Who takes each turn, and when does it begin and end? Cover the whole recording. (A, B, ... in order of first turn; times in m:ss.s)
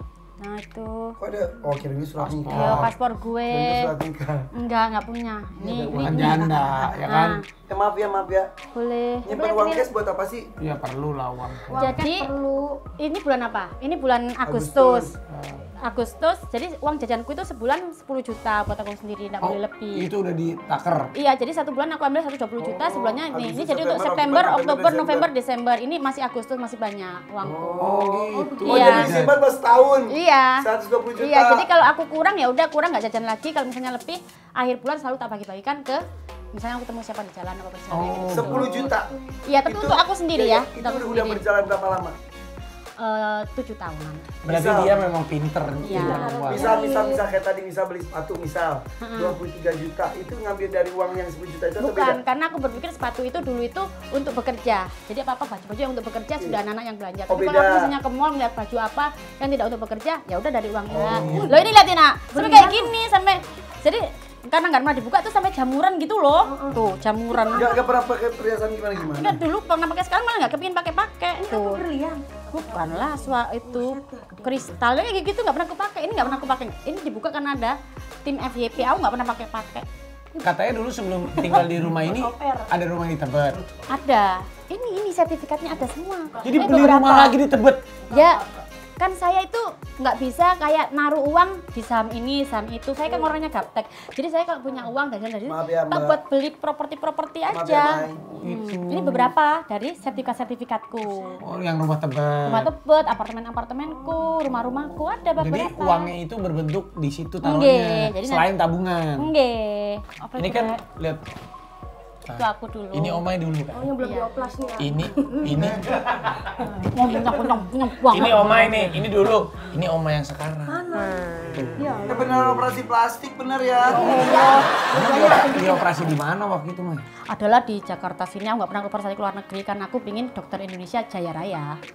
0:00.4-0:01.1 A
0:01.2-0:02.9 B
0:02.2-0:02.9 C
0:02.5-0:03.9 A
0:03.5-0:04.5 B
0:04.5-0:07.4 A
0:05.6-0:06.4 B
0:05.8-0:07.4 C
0:07.7-0:08.5 B
0:08.7-0:09.4 A
0:09.2-0:10.5 B
0:09.3-0:09.8 D
0:10.6-0:11.9 C
0:11.7-0:12.9 D
0:11.7-0:12.3 A
0:13.0-0:15.1 A
0:14.4-0:15.1 B
0:15.3-0:15.7 C
0:15.8-0:20.1 A
0:19.4-0:21.1 C
0:21.1-0:27.9 A
0:22.9-0:25.3 B
0:27.4-0:31.6 B
0:27.8-0:29.4 C
0:28.3-0:28.8 D
0:28.6-0:29.1 A
0:30.1-0:30.6 A
0:31.2-0:36.0 A
0:36.5-0:38.6 A
0:37.9-0:38.9 C
0:38.3-0:39.1 B
0:39.4-0:41.4 A
0:39.6-0:42.1 B
0:43.0-0:44.3 A
0:44.4-0:46.8 C
0:44.4-0:45.0 B
0:45.8-0:46.4 A
0:45.8-0:47.2 D
0:46.5-0:52.2 B
0:49.0-0:49.4 A
0:51.8-1:07.8 A
0:57.3-0:57.9 B
1:00.9-1:01.5 B
1:01.0-1:01.7 C
1:02.3-1:02.9 D
1:06.4-1:06.8 D
1:07.3-1:07.8 D
1:07.5-1:09.4 B
1:09.0-1:11.8 A
1:11.4-1:14.7 D
1:12.5-1:19.8 A
1:20.4-1:23.6 C
1:21.5-1:22.7 D
1:23.9-1:27.4 A
1:26.4-1:27.9 C
1:28.1-1:28.4 A
1:29.0-1:41.4 A
1:35.4-1:36.2 B
1:37.5-1:38.2 B
1:38.4-1:39.3 C
1:41.4-1:42.7 C
1:42.4-1:46.1 A
1:45.4-1:49.3 C
1:47.4-1:48.5 A
1:49.2-1:50.8 A
1:50.4-1:51.2 C
1:52.3-1:53.9 C
1:52.4-1:53.2 A
1:53.7-1:55.5 D
1:54.0-1:54.4 A
1:54.8-1:55.8 C
1:55.5-1:55.8 B
1:56.7-1:58.9 A
1:58.1-2:00.8 C
2:00.7-2:02.6 D
2:01.5-2:01.8 C
2:02.1-2:04.2 B
2:03.8-2:06.1 D
2:03.9-2:05.7 A
2:04.9-2:07.0 C
2:07.3-2:11.8 A